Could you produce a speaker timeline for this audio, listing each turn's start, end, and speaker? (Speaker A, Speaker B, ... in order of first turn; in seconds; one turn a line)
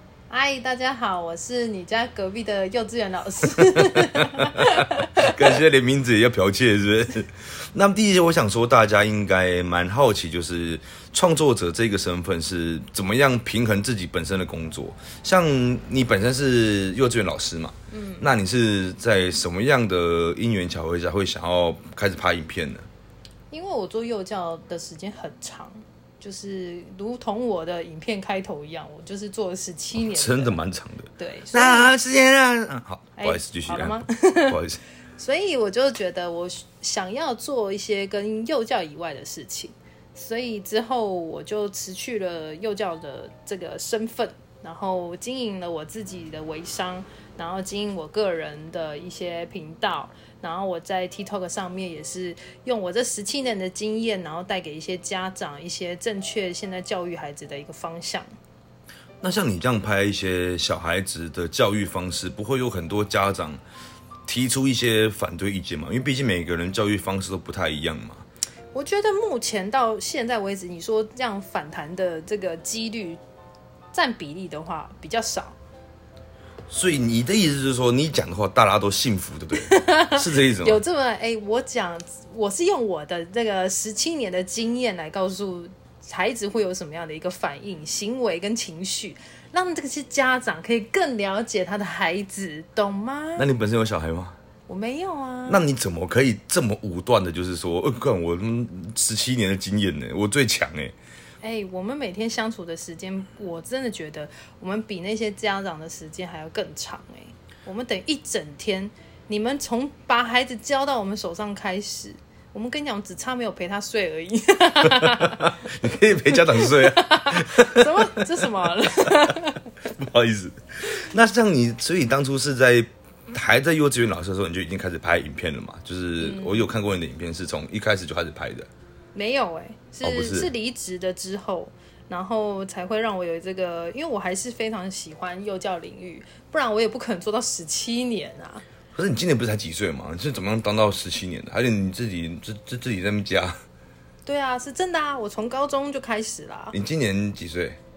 Speaker A: 0.3-5.5
Speaker B: 3.7-22.9
Speaker A: 17.9-18.2
Speaker A: 23.5-30.6
Speaker B: 29.9-34.8
Speaker A: 31.2-31.9
Speaker A: 33.2-34.6
Speaker A: 35.2-58.3
Speaker B: 59.2-63.6
Speaker B: 64.2-68.2
Speaker A: 68.7-73.2
Speaker A: 73.9-75.5
Speaker B: 76.7-80.8
Speaker A: 79.6-93.5
Speaker B: 93.4-94.3
Speaker A: 94.7-95.6
Speaker B: 95.5-100.9
Speaker A: 101.4-115.7
Speaker B: 114.9-128.7
Speaker A: 116.3-119.6
Speaker A: 126.2-126.7
Speaker A: 129.1-138.6
Speaker B: 130.0-130.5
Speaker B: 138.9-143.6
Speaker A: 144.2-146.8
Speaker B: 146.7-147.8